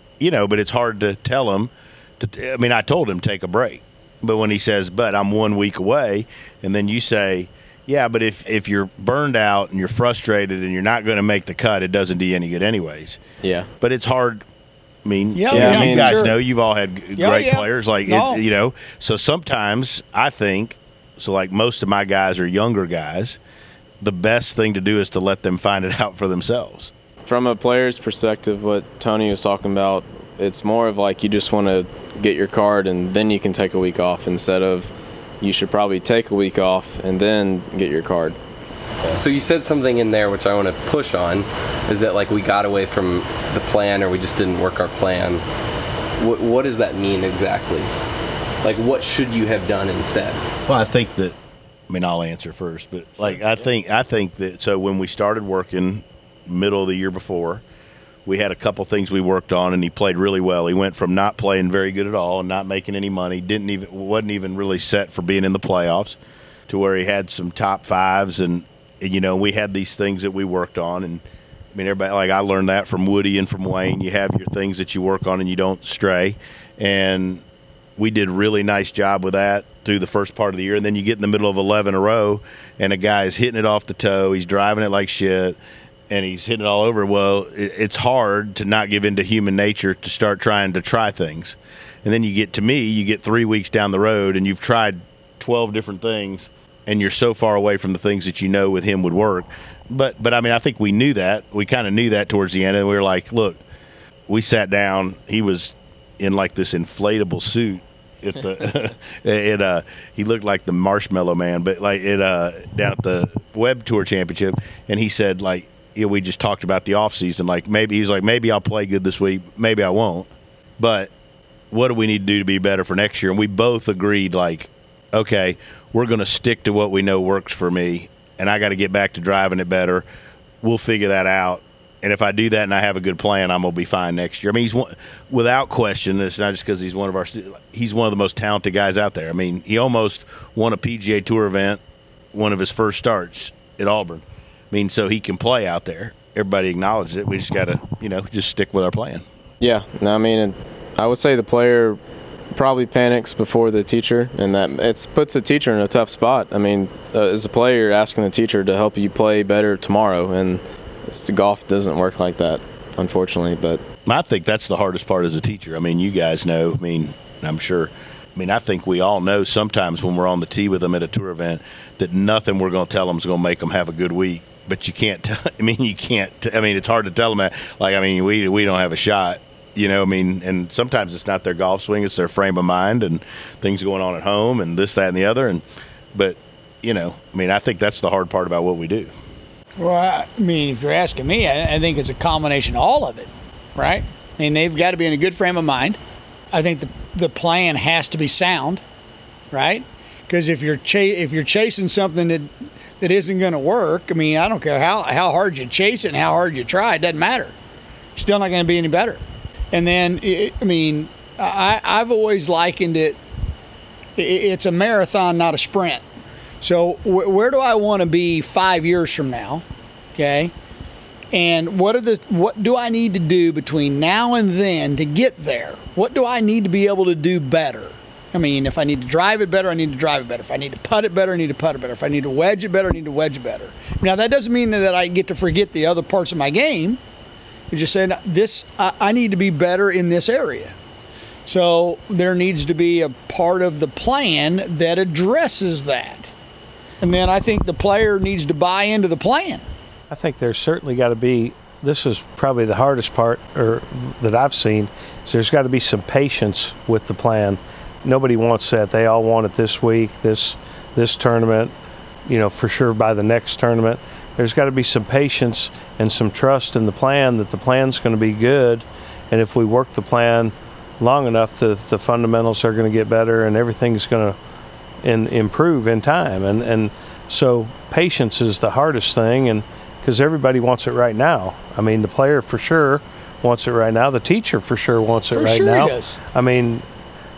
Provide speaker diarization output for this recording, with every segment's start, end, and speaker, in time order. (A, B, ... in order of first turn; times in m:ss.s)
0:00.2-0:13.2 A
0:13.4-0:13.7 B
0:13.8-0:14.4 A
0:15.0-0:23.4 A
0:15.3-0:16.3 C
0:15.5-0:16.3 B
0:17.2-0:18.4 C
0:24.0-0:26.9 A
0:27.2-0:38.4 B
0:39.1-0:45.4 D
0:46.2-0:47.9 D
0:48.6-0:50.4 D
0:50.6-0:51.4 A
0:51.9-0:57.6 A
0:58.2-1:11.2 A
1:11.7-1:17.4 A
1:18.0-1:25.6 A
1:26.1-1:43.6 A
1:44.3-2:01.1 A
2:01.7-2:10.0 A
2:10.6-2:21.8 A
2:22.3-2:29.2 A
2:29.6-2:32.0 B
2:32.5-2:43.8 B
2:44.0-3:09.1 A
3:09.8-3:16.0 C
3:16.5-3:18.8 C
3:19.5-3:27.5 C
3:28.1-3:33.2 C
3:34.2-3:36.0 C
3:36.6-3:39.6 C
3:40.1-3:40.5 C
3:41.3-3:57.0 C
3:57.7-4:00.7 C
4:01.4-4:06.3 C
4:07.0-4:09.6 C
4:10.1-4:21.7 E
4:22.3-4:34.4 E
4:35.0-4:46.8 E
4:45.3-4:46.2 C